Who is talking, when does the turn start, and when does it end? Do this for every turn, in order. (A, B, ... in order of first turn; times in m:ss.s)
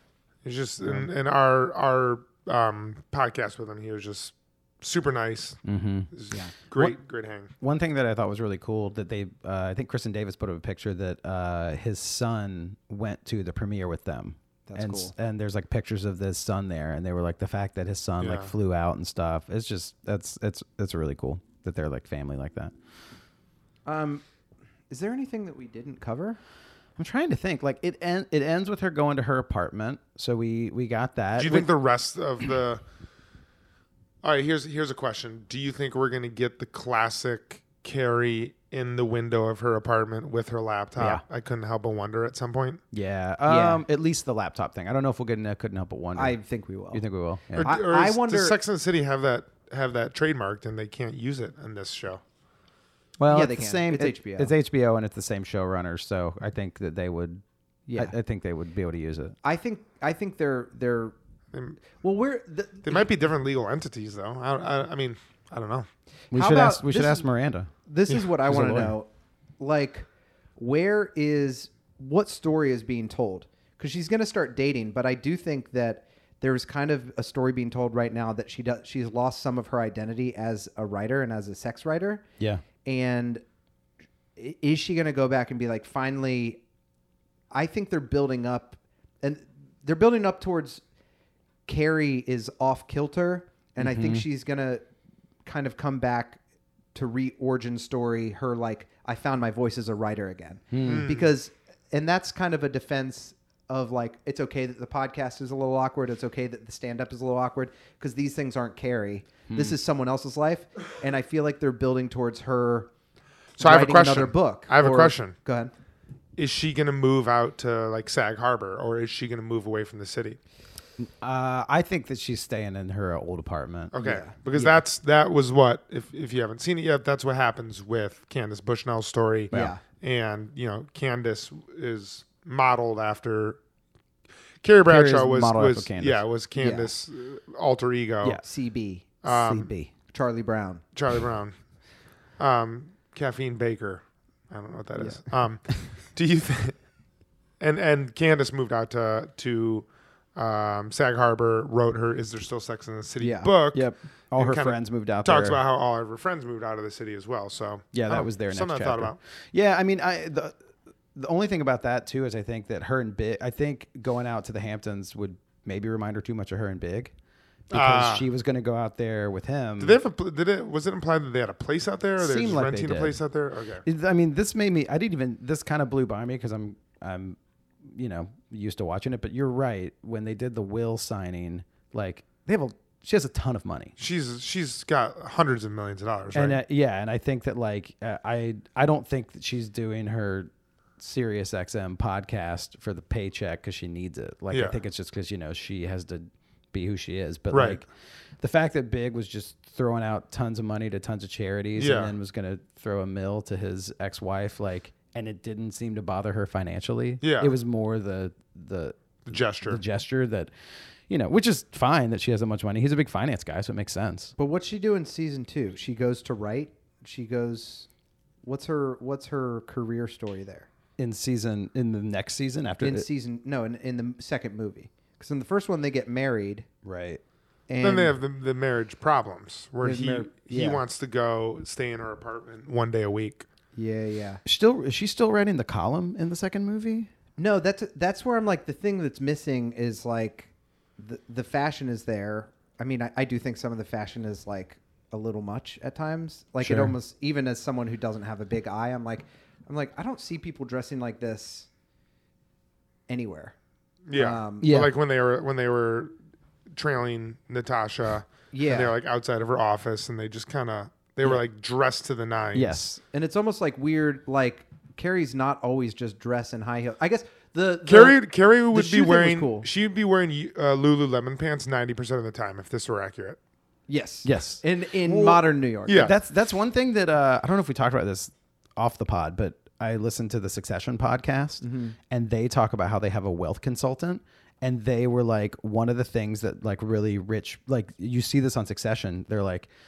0:00.4-0:05.6 A
0:05.6-0:06.1 B
0:06.1-0:07.5 A
0:07.6-0:22.7 B
0:14.7-0:15.1 C
0:18.2-0:18.5 A
0:23.8-0:24.2 C
0:24.9-0:26.4 C
0:27.0-0:31.7 B
0:31.4-0:32.8 A
0:34.2-0:42.8 A
0:41.0-0:41.2 B
0:42.9-0:46.4 B
0:43.5-0:43.8 C
0:46.2-0:48.6 C
0:46.9-0:47.8 B
0:47.6-0:52.2 A
0:53.2-0:57.4 B
0:53.3-0:54.5 C
0:57.9-0:58.1 C
0:57.9-0:59.3 B
0:59.4-1:01.1 C
1:01.5-1:01.8 A
1:02.0-1:03.1 C
1:02.8-1:05.9 A
1:06.3-1:07.3 C
1:06.3-1:07.7 B
1:07.9-1:09.1 C
1:08.4-1:08.9 B
1:09.6-1:22.2 C
1:22.8-1:23.4 C
1:24.4-1:26.6 C
1:27.5-1:30.8 C
1:31.7-1:34.8 C
1:33.8-1:34.2 B
1:35.4-1:36.4 C
1:36.9-1:52.9 C
1:40.7-1:41.1 B
1:40.8-1:41.3 A
1:49.5-1:49.8 B
1:53.6-1:55.3 A
1:53.6-1:55.7 C
1:56.4-2:00.4 A
2:01.0-2:03.9 B
2:03.9-2:13.6 A
2:04.0-2:04.3 C
2:09.5-2:09.8 C
2:14.6-2:18.4 A
2:14.8-2:16.2 B
2:16.6-2:16.9 C
2:18.4-2:19.2 C
2:19.2-2:19.9 B
2:19.2-2:19.7 A
2:20.1-2:20.8 C
2:20.9-2:21.5 A
2:22.4-2:25.6 A
2:25.0-2:25.2 C
2:26.1-2:26.8 A
2:27.6-2:39.2 A
2:33.2-2:33.5 C
2:33.7-2:35.6 B
2:37.9-2:40.6 B
2:41.1-2:47.1 B
2:47.7-2:50.0 B
2:47.7-2:48.2 A
2:49.8-2:53.8 A
2:52.2-2:53.2 B
2:53.8-3:03.9 B
3:04.0-3:06.6 A
3:06.3-3:17.9 B
3:14.5-3:14.8 A
3:17.5-3:17.8 A
3:18.4-3:30.5 B
3:21.8-3:22.1 A
3:27.2-3:27.5 A
3:29.3-3:29.8 A
3:31.1-3:34.3 B
3:34.4-3:37.9 C
3:38.4-3:40.7 C
3:41.0-3:43.1 B
3:42.8-3:46.6 C
3:46.8-3:47.2 B
3:47.7-3:48.1 C
3:47.8-3:53.4 A
3:49.8-3:50.8 C
3:53.7-3:54.4 C
3:54.4-3:57.1 B
3:57.4-4:11.7 C
4:06.6-4:06.9 B
4:13.1-4:13.5 C
4:14.1-4:16.1 A
4:14.1-4:14.7 C
4:14.6-4:14.9 B
4:16.7-4:22.8 A
4:18.5-4:19.0 C
4:22.5-4:23.0 B
4:23.1-4:28.2 C
4:27.9-4:33.4 A
4:28.7-4:29.6 C
4:33.9-4:36.1 C
4:34.2-4:49.7 B
4:35.9-4:36.1 A
4:41.6-4:42.0 C